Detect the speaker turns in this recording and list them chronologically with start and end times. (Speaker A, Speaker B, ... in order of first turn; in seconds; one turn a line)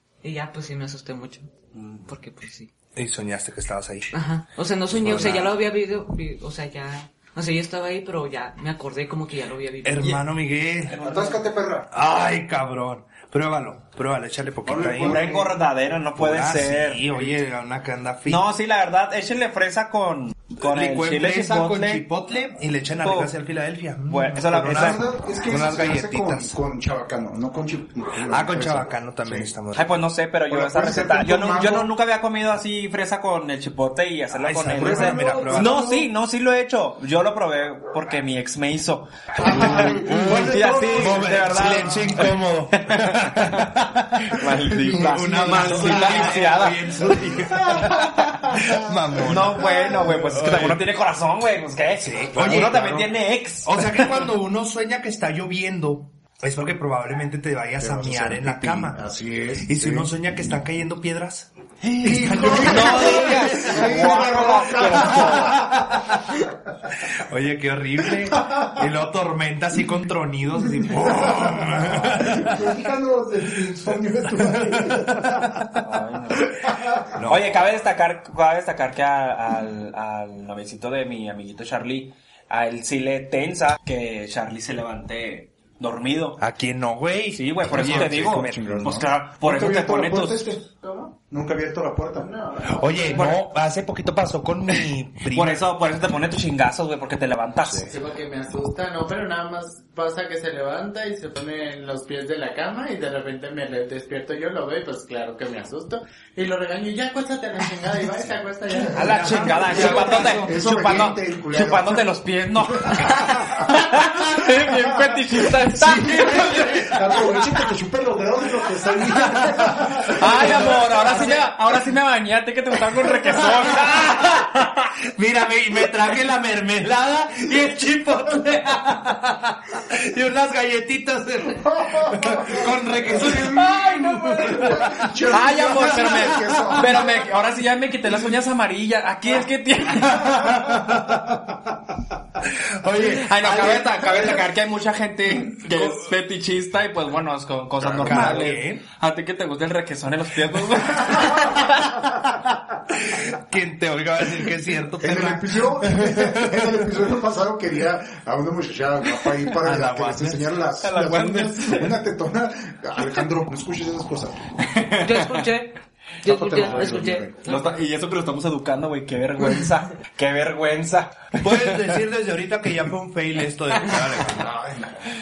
Speaker A: 0.2-1.5
Speaker B: 1.7-2.1
Speaker A: 2.0-2.7
Speaker C: 2.9-4.1
Speaker A: 4.1-10.2
Speaker C: 4.9-5.6
Speaker C: 9.8-11.1
Speaker B: 10.9-11.4
Speaker D: 11.0-11.9
Speaker C: 11.9-15.3
Speaker D: 14.6-15.5
Speaker B: 15.0-17.1
Speaker C: 16.1-18.4
Speaker B: 18.2-22.1
Speaker C: 20.6-26.6
Speaker B: 23.0-23.3
Speaker B: 24.1-25.1
Speaker D: 24.5-29.5
Speaker C: 28.2-30.0
Speaker B: 29.7-48.0
Speaker D: 30.5-31.9
Speaker C: 34.3-35.9
Speaker D: 34.7-36.1
Speaker C: 39.4-50.8
Speaker D: 39.4-42.2
Speaker D: 44.8-50.3
Speaker B: 49.2-54.3
Speaker C: 52.0-53.1
Speaker C: 53.6-59.1
Speaker D: 57.8-60.1
Speaker C: 59.6-61.5
Speaker B: 61.8-65.6
Speaker C: 62.0-64.2
Speaker D: 62.0-65.8
Speaker C: 64.8-66.4
Speaker C: 67.1-72.8
Speaker D: 68.4-68.7
Speaker D: 70.8-75.7
Speaker C: 73.7-75.8
Speaker B: 75.8-86.4
Speaker D: 76.4-77.0
Speaker C: 77.1-77.7
Speaker C: 86.4-89.0
Speaker B: 87.3-90.5
Speaker D: 87.7-90.6
Speaker E: 90.7-91.2
Speaker D: 91.3-92.3
Speaker E: 92.2-93.2
Speaker C: 92.7-95.6
Speaker B: 93.1-93.4
Speaker B: 95.3-97.9
Speaker C: 97.6-97.9
Speaker E: 97.9-109.6
Speaker B: 108.9-117.4
Speaker C: 109.0-110.6
Speaker D: 109.5-112.1
Speaker D: 112.6-121.5
Speaker C: 116.1-117.2
Speaker C: 119.1-121.4
Speaker B: 120.1-124.7
Speaker C: 123.3-137.0
Speaker D: 131.7-137.3
Speaker B: 135.3-140.6
Speaker C: 140.1-141.6
Speaker C: 142.4-144.1
Speaker B: 142.9-152.2
Speaker C: 145.6-146.1
Speaker D: 147.8-148.6
Speaker C: 148.0-148.8
Speaker C: 152.9-156.9
Speaker D: 155.0-164.5
Speaker C: 159.6-160.6
Speaker B: 160.8-162.0
Speaker B: 164.6-165.5
Speaker A: 165.0-167.7
Speaker D: 166.2-167.4
Speaker B: 166.6-172.0
Speaker C: 171.4-174.5
Speaker B: 173.8-174.3
Speaker D: 174.3-175.1